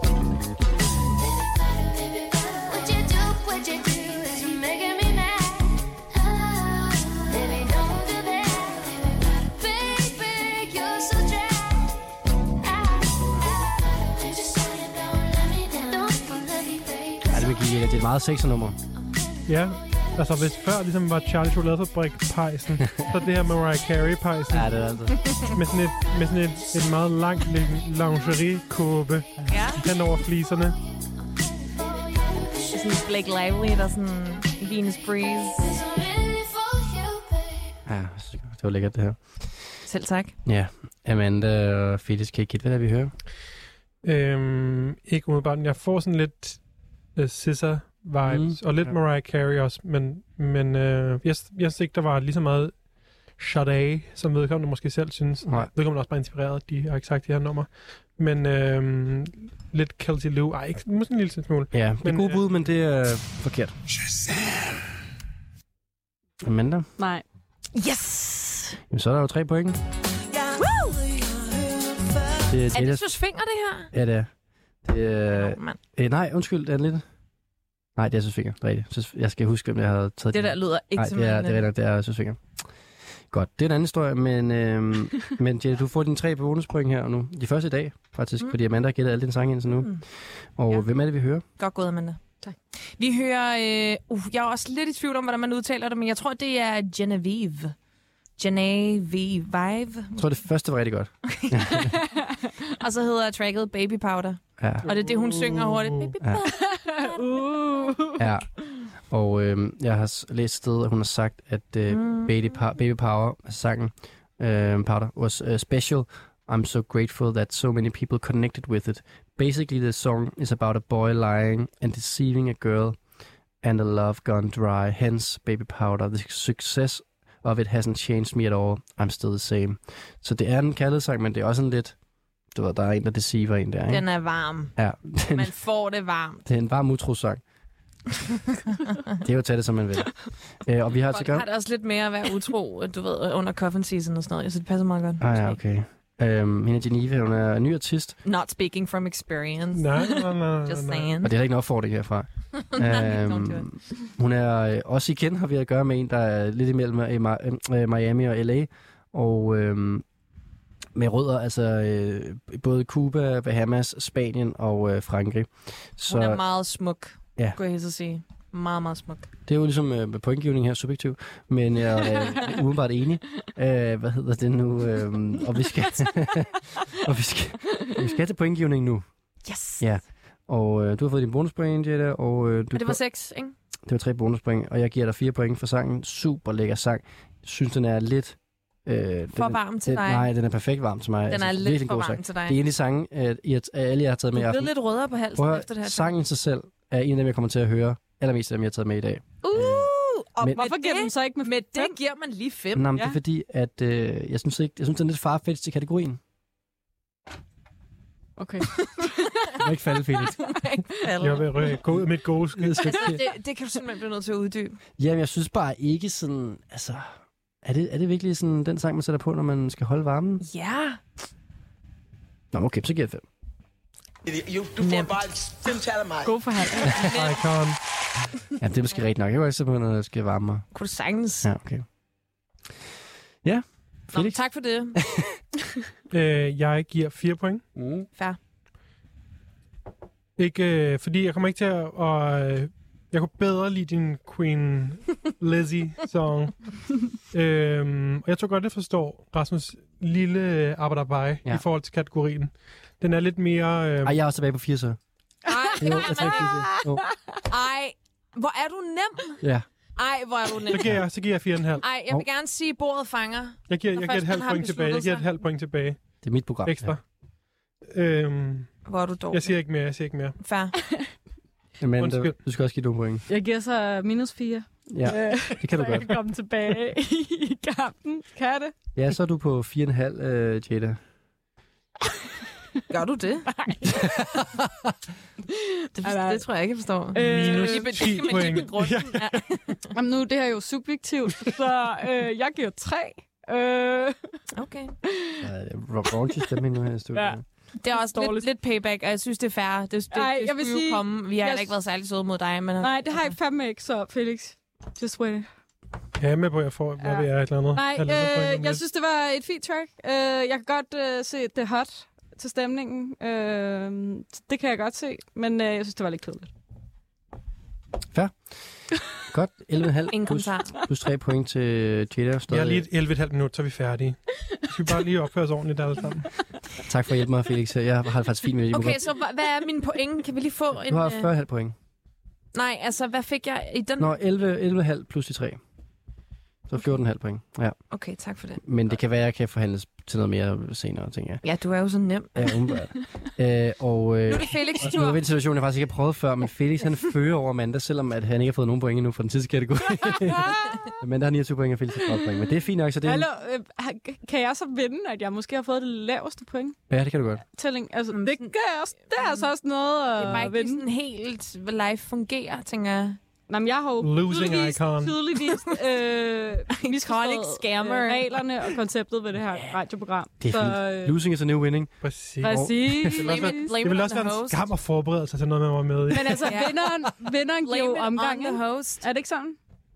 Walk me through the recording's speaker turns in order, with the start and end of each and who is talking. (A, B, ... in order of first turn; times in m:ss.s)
0:01.0-0:12.1 A
0:12.6-0:17.9 A
0:17.3-0:18.8 B
0:19.4-0:24.8 C
0:24.5-0:25.2 B
0:25.2-0:25.5 D
0:25.5-0:30.8 C
0:29.5-0:29.8 D
0:31.4-0:33.2 A
0:32.7-0:35.7 D
0:35.6-0:37.8 A
0:37.9-0:39.2 B
0:39.9-0:40.4 D
0:40.4-0:43.1 B
0:44.0-0:46.6 C
0:47.2-0:52.8 C
0:48.2-0:48.9 B
0:53.4-1:02.4 C
0:55.4-0:55.7 B
1:01.7-1:03.8 B
1:06.4-1:06.9 B
1:07.0-1:07.2 E
1:07.8-1:08.8 D
1:08.9-1:09.8 B
1:10.6-1:11.0 D
1:12.5-1:13.1 B
1:12.7-1:13.9 D
1:13.9-1:14.3 B
1:14.8-1:17.0 B
1:15.3-1:15.8 D
1:18.0-1:22.4 B
1:20.3-1:21.6 D
1:23.3-1:30.0 B
1:30.6-1:31.4 B
1:31.6-1:32.2 D
1:33.0-1:37.7 D
1:38.4-1:40.3 D
1:40.2-1:41.9 B
1:41.3-1:42.0 D
1:42.1-1:42.3 E
1:42.7-1:46.3 D
1:44.6-1:44.9 B
1:44.9-1:46.1 C
1:46.2-1:46.5 B
1:46.4-1:48.3 E
1:48.2-1:48.5 B
1:49.1-2:03.0 B
1:51.9-1:52.4 D
2:03.6-2:12.0 B
2:12.5-2:14.0 B
2:13.9-2:14.8 D
2:14.8-2:15.5 B
2:15.3-2:16.4 D
2:16.4-2:17.4 B
2:19.2-2:21.4 B
2:21.1-2:25.6 D
2:25.2-2:28.2 B
2:28.2-2:31.3 D
2:29.7-2:31.1 C
2:31.2-2:40.0 B
2:32.7-2:33.7 D
2:41.0-2:46.4 B
2:46.1-2:49.3 D
2:49.5-2:59.1 B
2:59.4-2:59.8 D
2:59.8-3:03.0 B
3:02.7-3:03.5 D
3:03.9-3:14.7 B
3:09.3-3:10.3 D
3:11.3-3:12.6 D
3:14.3-3:16.2 D
3:15.4-3:20.6 B
3:19.4-3:23.0 D
3:20.5-3:22.0 E
3:22.8-3:26.2 B
3:28.4-3:29.5 E
3:29.6-3:30.6 B
3:30.3-3:31.7 D
3:31.2-3:33.1 C
3:32.6-3:33.2 B
3:32.8-3:34.8 D
3:35.0-3:37.1 B
3:37.6-3:40.4 B
3:40.4-3:41.0 D
3:42.5-3:43.2 B
3:44.2-3:46.4 F
3:44.8-3:45.2 D
3:46.2-3:47.2 E
3:46.9-3:47.1 B
3:47.0-3:47.8 C
3:48.6-3:50.7 B
3:50.7-3:51.5 D
3:51.4-3:51.8 B
3:53.4-3:54.4 B
3:54.1-3:55.0 D
3:55.0-3:55.4 B
3:56.1-3:57.6 C
4:00.4-4:14.2 C
4:14.0-4:15.0 B
4:15.4-4:16.7 D
4:15.7-4:17.1 E
4:15.8-4:17.1 B
4:17.4-4:19.4 D
4:20.0-4:20.9 D
4:20.7-4:21.8 C
4:21.8-4:25.3 D
4:23.7-4:26.1 C
4:26.2-4:27.0 B
4:26.6-4:27.0 C
4:27.9-4:28.8 C
4:28.9-4:29.6 D
4:29.3-4:30.4 C
4:30.4-4:30.8 D
4:31.8-4:33.2 B
4:32.0-4:32.4 C
4:33.3-4:38.7 E
4:34.9-4:36.2 B
4:39.0-4:41.0 B
4:42.9-4:43.5 D
4:43.5-4:44.2 E
4:43.9-4:44.7 B
4:45.5-4:46.4 E
4:46.0-4:49.9 D
4:47.1-4:48.6 E
4:47.2-4:49.5 C
4:49.9-4:54.4 E
4:54.5-4:55.0 D
4:55.0-4:55.4 E
4:55.4-4:57.4 B
4:57.1-4:58.5 E
4:57.8-5:03.3 D
5:00.1-5:01.8 E
5:02.8-5:05.5 E
5:06.2-5:08.8 C
5:07.0-5:16.5 E
5:19.1-5:22.9 B
5:20.1-5:20.8 D
5:22.5-5:26.4 C
5:26.8-5:29.0 B
5:28.7-5:31.3 D
5:30.9-5:31.8 B
5:32.5-5:34.1 D
5:34.0-5:35.6 B
5:36.7-5:37.8 B
5:37.9-5:38.6 D
5:38.6-5:41.4 B
5:41.4-5:42.6 D
5:42.4-5:53.3 B
5:44.3-5:45.2 D
5:50.1-5:50.9 E
5:53.0-5:56.8 E
5:56.9-5:57.4 B
5:57.5-6:00.8 E
5:58.1-5:58.6 D
5:59.1-5:59.5 D
6:00.2-6:03.2 D
6:03.5-6:11.2 E
6:04.0-6:05.2 C
6:05.2-6:05.8 D
6:06.7-6:08.4 D
6:10.4-6:11.9 B
6:12.0-6:16.6 C
6:12.4-6:13.8 E
6:12.4-6:13.2 B
6:13.2-6:14.7 D
6:16.1-6:19.6 E
6:16.4-6:17.1 D
6:17.6-6:19.0 D